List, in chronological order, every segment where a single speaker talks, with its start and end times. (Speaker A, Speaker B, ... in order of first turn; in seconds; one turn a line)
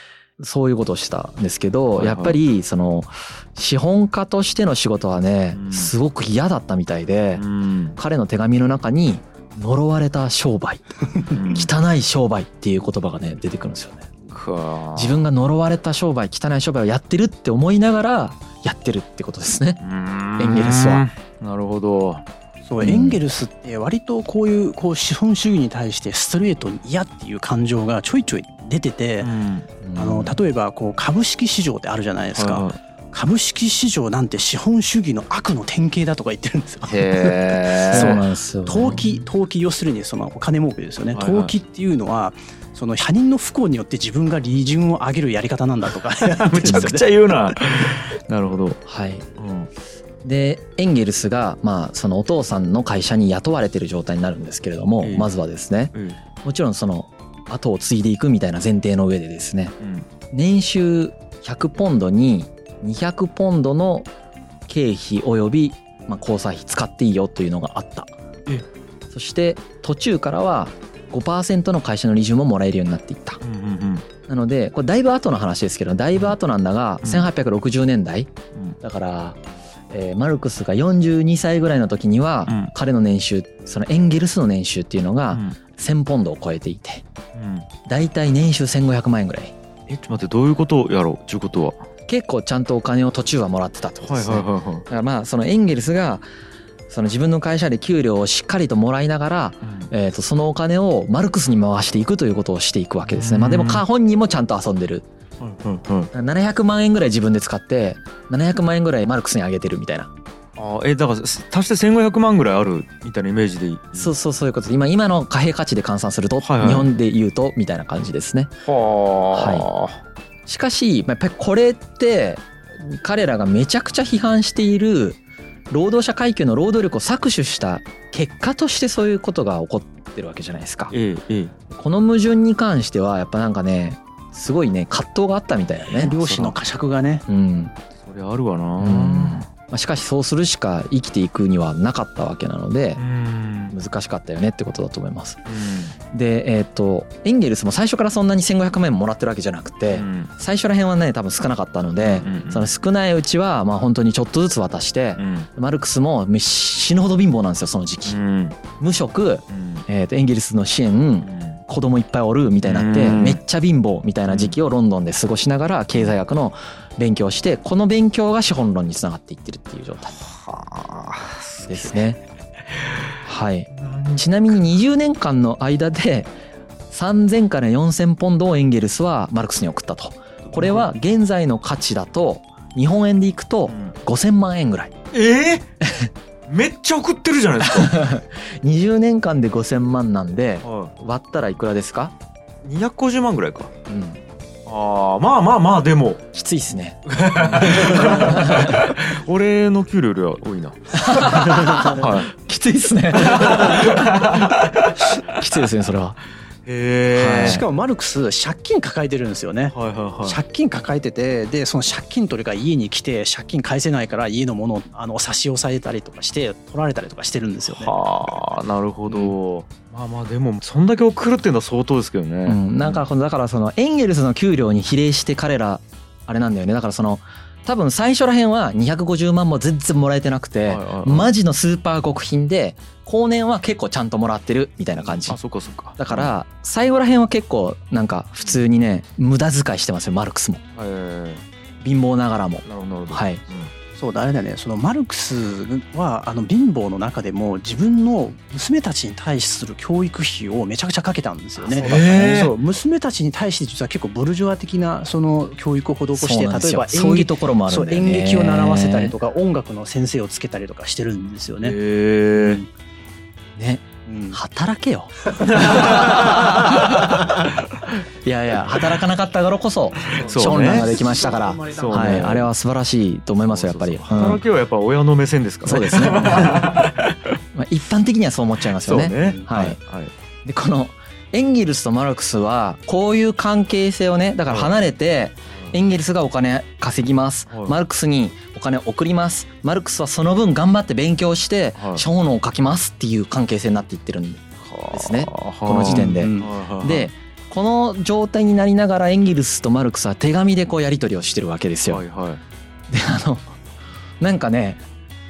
Speaker A: 0.4-7.5
Speaker B: 2.0-2.4
Speaker B: 5.5-5.9
Speaker B: 7.4-8.0
Speaker A: 8.0-14.1
Speaker B: 11.3-11.7
Speaker B: 14.3-15.2
Speaker A: 14.9-19.8
Speaker B: 19.8-22.2
Speaker A: 20.4-21.0
Speaker C: 22.6-29.3
Speaker A: 22.8-23.2
Speaker B: 29.2-29.7
Speaker A: 29.8-30.4
Speaker C: 29.9-47.0
Speaker B: 32.3-32.8
Speaker B: 36.9-38.2
Speaker A: 37.9-39.0
Speaker B: 41.1-41.5
Speaker B: 46.4-48.8
Speaker A: 46.6-46.9
Speaker A: 48.9-49.3
Speaker B: 49.4-49.7
Speaker A: 50.2-59.8
Speaker B: 55.0-55.3
Speaker B: 59.8-60.1
Speaker A: 60.3-64.1
Speaker A: 64.7-68.1
Speaker A: 69.1-73.4
Speaker B: 73.4-74.0
Speaker A: 74.3-79.4
Speaker B: 77.0-77.3
Speaker A: 79.9-87.0
Speaker B: 82.5-82.7
Speaker B: 85.3-85.6
Speaker B: 87.3-87.7
Speaker A: 87.9-89.5
Speaker B: 89.9-91.8
Speaker A: 92.1-96.3
Speaker B: 94.0-94.8
Speaker A: 96.9-105.1
Speaker B: 99.6-99.9
Speaker B: 103.1-103.8
Speaker B: 105.4-106.1
Speaker A: 106.1-110.1
Speaker B: 110.6-114.1
Speaker A: 114.0-118.5
Speaker B: 116.4-116.9
Speaker B: 118.7-120.0
Speaker A: 119.3-119.7
Speaker A: 120.5-125.2
Speaker A: 125.7-130.9
Speaker B: 130.9-131.5
Speaker A: 131.7-136.1
Speaker C: 135.9-137.2
Speaker B: 136.0-136.6
Speaker A: 137.3-137.7
Speaker B: 138.1-139.5
Speaker A: 138.8-143.0
Speaker B: 143.0-143.8
Speaker A: 143.7-145.4
Speaker B: 145.5-145.9
Speaker A: 146.1-158.2
Speaker B: 149.9-150.3
Speaker B: 152.0-152.7
Speaker B: 155.2-155.5
Speaker B: 158.1-158.6
Speaker A: 158.8-170.2
Speaker B: 159.5-159.9
Speaker B: 161.2-161.6
Speaker B: 162.6-163.4
Speaker B: 164.3-164.6
Speaker B: 170.2-172.0
Speaker A: 171.7-172.2
Speaker B: 172.8-173.2
Speaker A: 173.2-176.3
Speaker B: 173.8-174.5
Speaker A: 176.9-184.9
Speaker B: 180.6-180.9
Speaker B: 183.7-183.9
Speaker B: 185.1-185.7
Speaker A: 185.8-186.1
Speaker B: 186.5-187.9
Speaker A: 187.6-192.1
Speaker B: 190.6-190.9
Speaker B: 192.6-193.7
Speaker A: 193.9-194.2
Speaker B: 194.7-196.2
Speaker A: 196.3-197.0
Speaker B: 197.1-202.3
Speaker A: 197.7-198.8
Speaker C: 197.8-198.0
Speaker A: 200.9-204.3
Speaker C: 201.5-202.1
Speaker B: 203.2-205.4
Speaker A: 205.3-206.2
Speaker B: 206.7-207.6
Speaker A: 207.1-207.6
Speaker C: 207.4-218.0
Speaker B: 209.7-210.4
Speaker B: 217.7-223.0
Speaker A: 222.4-235.4
Speaker B: 230.7-231.3
Speaker B: 235.0-236.3
Speaker A: 236.0-240.6
Speaker B: 240.8-241.4
Speaker A: 241.8-243.4
Speaker B: 242.7-243.7
Speaker C: 243.9-261.8
Speaker A: 251.6-252.4
Speaker B: 251.8-252.5
Speaker A: 256.1-259.1
Speaker B: 261.6-262.6
Speaker C: 262.3-262.7
Speaker A: 263.6-267.3
Speaker C: 264.1-264.4
Speaker B: 265.4-267.4
Speaker A: 268.2-274.4
Speaker C: 270.2-272.2
Speaker B: 270.2-270.9
Speaker B: 271.7-272.5
Speaker B: 273.5-277.3
Speaker A: 275.6-276.7
Speaker A: 277.5-279.8
Speaker B: 278.7-280.1
Speaker C: 279.2-279.4
Speaker A: 280.4-302.0
Speaker B: 284.5-284.7
Speaker B: 287.5-287.8
Speaker B: 291.8-292.1
Speaker B: 294.6-297.1
Speaker C: 295.8-296.5
Speaker B: 301.9-302.4
Speaker A: 302.9-303.5
Speaker A: 304.2-304.8